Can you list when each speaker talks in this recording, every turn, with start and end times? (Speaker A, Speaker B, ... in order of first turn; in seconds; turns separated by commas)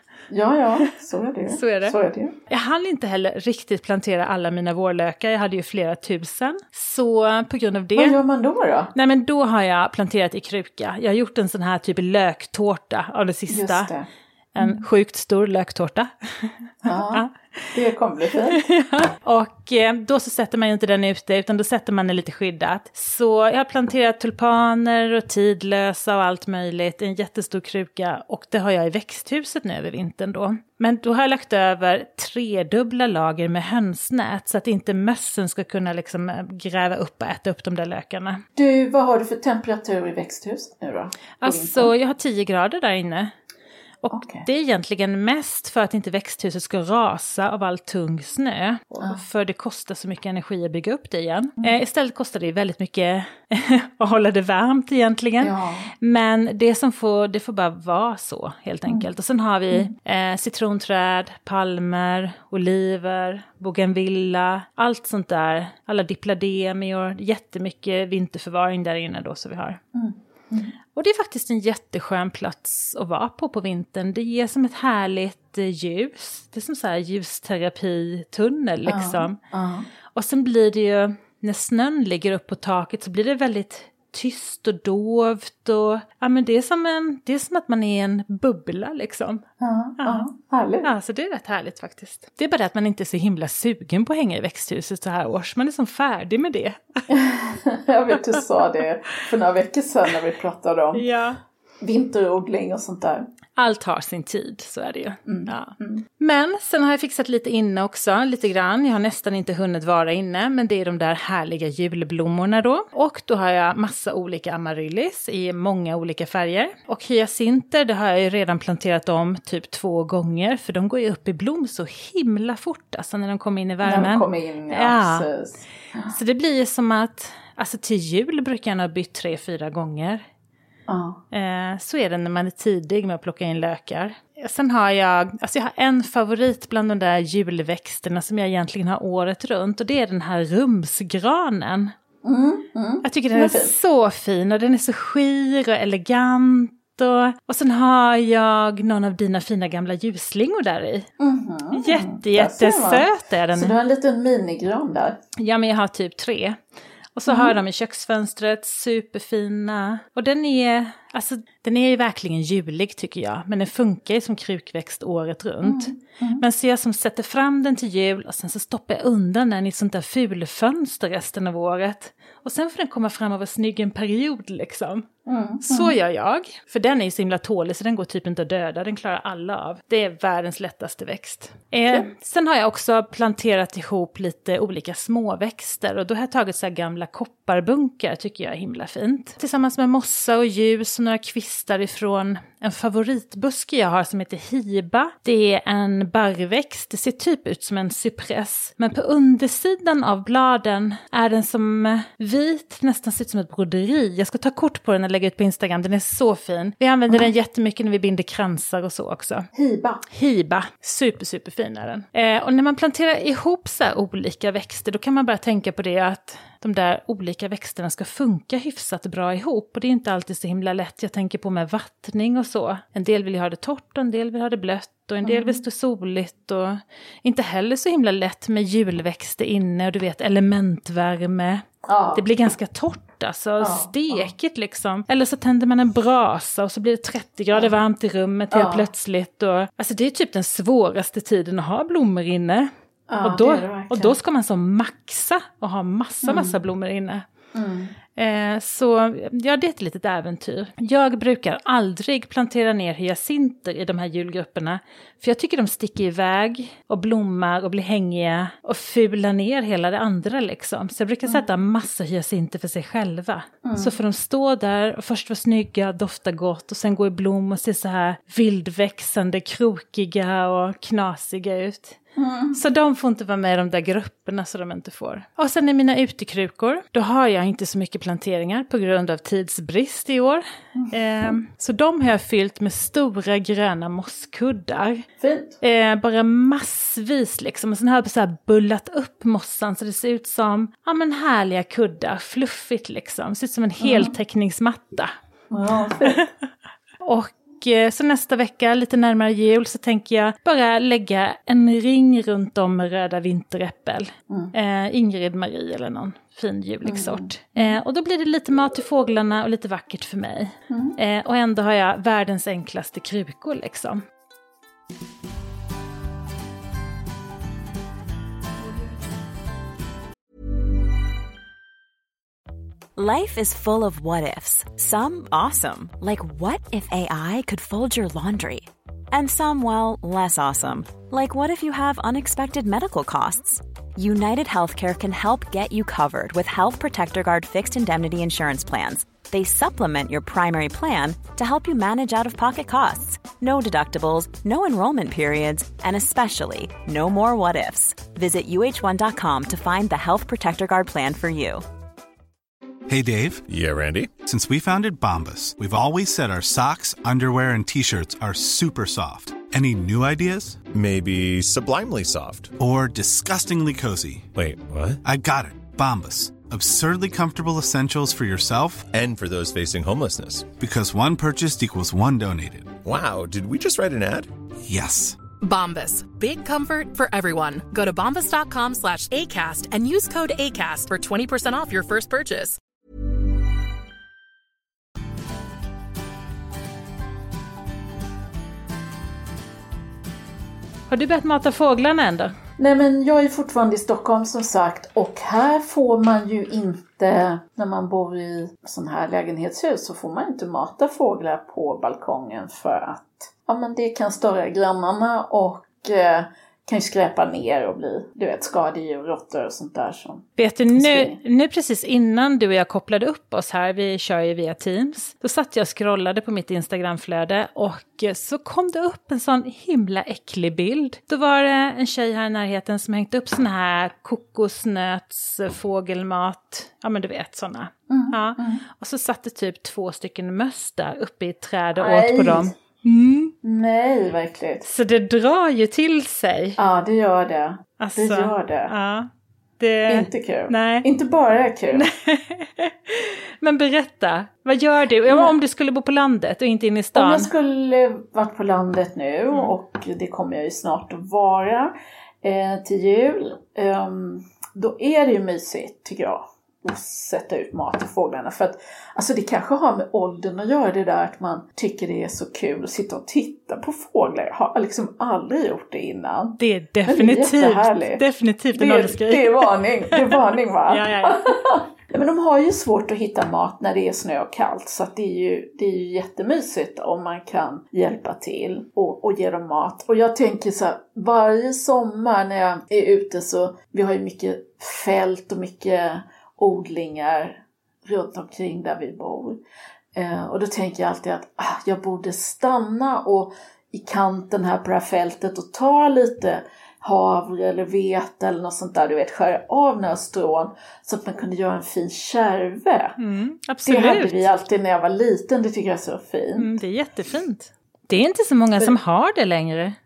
Speaker A: 0.3-2.4, Speaker B: 1.5-2.0, Speaker B: 2.5-8.2, Speaker A: 8.0-8.9, Speaker B: 8.9-13.9, Speaker A: 13.5-14.8, Speaker B: 14.6-17.7, Speaker A: 16.8-18.6, Speaker B: 18.6-38.4, Speaker A: 38.5-41.9, Speaker B: 41.4-43.3, Speaker B: 44.0-69.8, Speaker A: 44.1-44.4, Speaker A: 55.4-55.9, Speaker A: 69.9-70.7, Speaker B: 70.9-79.3, Speaker A: 78.8-79.9, Speaker B: 80.1-89.4, Speaker A: 89.6-90.8, Speaker B: 90.0-90.3, Speaker B: 90.8-97.0, Speaker A: 97.1-101.0, Speaker B: 100.9-101.4, Speaker A: 101.8-103.3, Speaker B: 103.5-125.3, Speaker A: 105.2-106.0, Speaker A: 123.8-126.1, Speaker B: 126.1-130.2, Speaker A: 130.9-131.2, Speaker B: 131.3-141.9, Speaker A: 142.2-143.7, Speaker B: 143.0-151.1, Speaker A: 151.2-155.2, Speaker B: 151.7-153.7, Speaker B: 155.4-156.6, Speaker B: 157.2-175.1, Speaker A: 157.3-157.6, Speaker A: 165.6-166.4, Speaker A: 175.2-175.9, Speaker B: 175.6-209.5, Speaker A: 209.5-210.0, Speaker B: 210.1-242.7, Speaker A: 225.2-225.6, Speaker A: 231.8-232.2, Speaker A: 233.6-234.3, Speaker A: 238.5-238.9, Speaker A: 243.1-244.2, Speaker B: 243.2-247.2, Speaker A: 246.2-246.6, Speaker A: 247.5-247.9, Speaker B: 248.2-272.0, Speaker A: 263.6-263.9, Speaker A: 272.1-272.6, Speaker B: 272.5-285.1, Speaker A: 280.7-281.3, Speaker A: 285.2-285.6, Speaker B: 285.6-295.1, Speaker A: 293.8-294.1, Speaker A: 295.5-296.2, Speaker B: 297.0-314.0, Speaker A: 306.9-307.8, Speaker A: 310.7-311.0, Speaker C: 322.9-351.6, Speaker D: 352.9-353.4, Speaker E: 353.5-354.2, Speaker D: 354.2-360.6, Speaker E: 360.7-362.6, Speaker D: 362.6-364.3, Speaker E: 364.3-365.0, Speaker D: 365.0-368.9, Speaker E: 368.9-370.6, Speaker D: 370.6-372.8, Speaker E: 372.8-374.3, Speaker D: 374.6-375.2, Speaker F: 375.4-382.6, Speaker B: 390.9-392.3, Speaker A: 392.6-411.2, Speaker B: 410.4-433.3, Speaker A: 427.9-428.6, Speaker A: 431.8-432.5, Speaker A: 433.4-434.6, Speaker B: 434.6-436.6, Speaker A: 436.6-438.7, Speaker B: 437.8-440.9, Speaker A: 439.9-441.9, Speaker B: 441.8-447.3, Speaker A: 445.1-445.3, Speaker A: 446.9-468.0, Speaker B: 449.3-449.5, Speaker B: 466.4-471.2, Speaker A: 468.5-489.4, Speaker A: 489.9-502.9, Speaker B: 503.0-504.3, Speaker A: 503.6-506.5, Speaker B: 506.4-509.8